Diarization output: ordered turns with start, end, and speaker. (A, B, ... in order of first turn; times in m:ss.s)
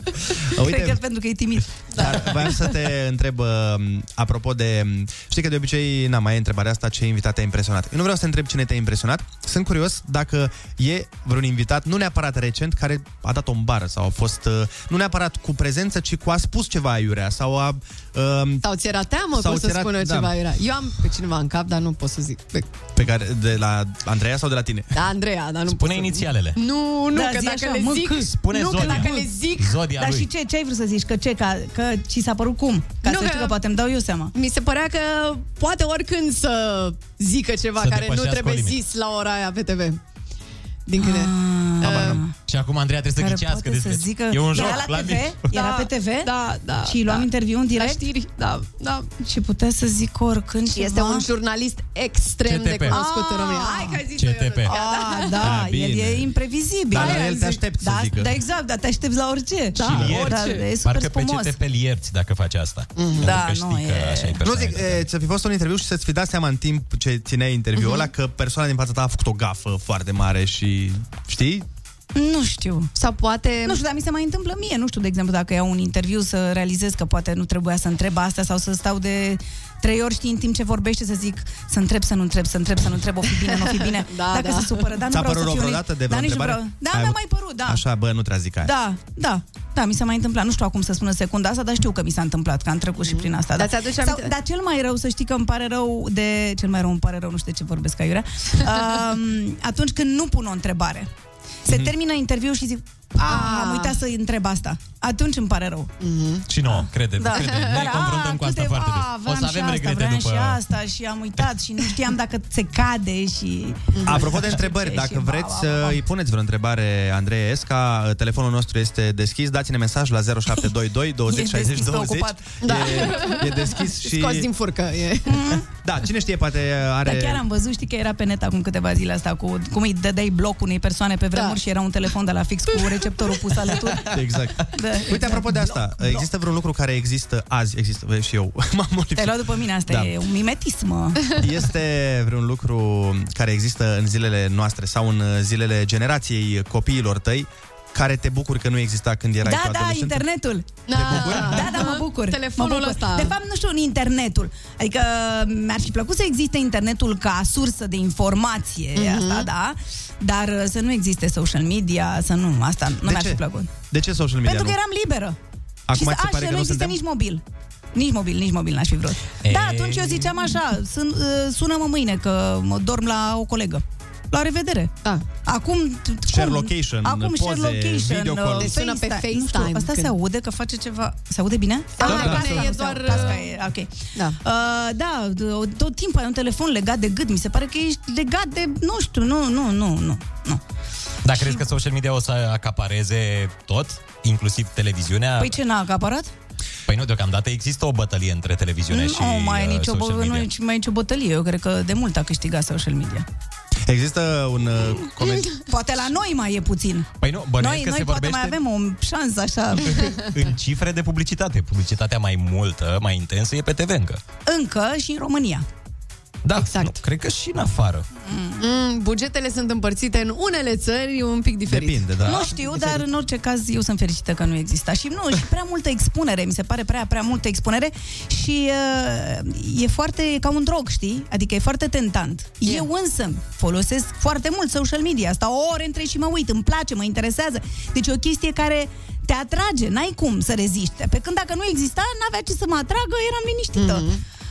0:00.6-0:01.0 A
0:00.6-0:01.8 B
0:01.9-0:02.2 C
0:01.9-0:18.6 A
0:18.6-0:22.7 C
0:19.3-0:20.3 A
0:23.0-0:25.0 A
0:24.9-0:29.8 C
0:25.7-0:26.6 D
0:27.1-0:29.3 B
0:28.3-0:30.3 D
0:30.0-0:34.3 B
0:33.0-0:33.6 C
0:34.3-0:40.0 C
0:37.8-0:38.8 D
0:40.9-0:42.2 C
0:41.0-0:42.3 B
0:41.8-0:45.6 D
0:43.2-0:48.0 B
0:45.5-0:49.1 C
0:49.3-0:51.3 B
0:50.7-0:55.5 C
0:52.4-0:53.0 D
0:52.9-0:54.0 B
0:54.2-0:54.7 D
0:54.7-1:01.6 B
0:55.3-0:56.4 A
0:56.9-0:58.4 A
0:56.9-0:57.6 C
0:59.8-1:05.0 D
0:59.8-1:00.7 C
0:59.8-1:00.2 A
1:03.0-1:03.4 C
1:03.2-1:04.4 B
1:04.4-1:11.6 A
1:07.8-1:08.1 C
1:12.2-1:12.9 B
1:13.0-1:13.8 C
1:13.6-1:27.8 B
1:23.4-1:25.0 C
1:25.1-1:28.7 A
1:28.6-1:41.1 B
1:33.0-1:34.3 C
1:41.6-1:45.9 B
1:43.2-1:44.0 C
1:46.0-1:46.5 C
1:46.5-1:50.6 D
1:46.7-1:56.0 B
1:47.3-1:47.9 C
1:53.9-1:54.3 C
1:54.0-2:04.5 A
2:01.3-2:02.6 B
2:02.6-2:05.5 C
2:05.3-2:05.6 B
2:05.8-2:07.4 A
2:07.0-2:16.3 B
2:12.7-2:13.7 C
2:14.1-2:20.2 A
2:19.2-2:21.4 B
2:21.4-2:30.3 A
2:29.4-2:43.7 B
2:30.8-2:33.4 C
2:30.9-2:31.8 A
2:39.0-2:39.5 C
2:43.0-2:44.8 A
2:44.4-2:45.4 B
2:45.9-2:47.0 A
2:45.9-2:47.4 B
2:47.9-3:10.6 B
2:49.4-2:50.4 D
2:56.3-2:58.8 A
2:58.6-3:00.1 C
3:02.0-3:03.5 C
3:02.0-3:02.7 A
3:11.2-3:15.6 D
3:11.3-3:11.6 B
3:15.4-3:16.3 B
3:16.9-3:20.5 D
3:18.9-3:23.2 B
3:23.9-3:25.6 A
3:25.7-3:30.1 B
3:27.2-3:28.6 D
3:29.9-3:34.2 D
3:34.5-3:35.6 B
3:36.4-3:38.1 D
3:36.6-3:37.0 C
3:38.2-3:38.6 B
3:38.6-3:42.1 C
3:41.7-3:42.5 A
3:42.2-4:04.1 B
3:42.6-3:43.0 C
4:03.7-4:04.2 C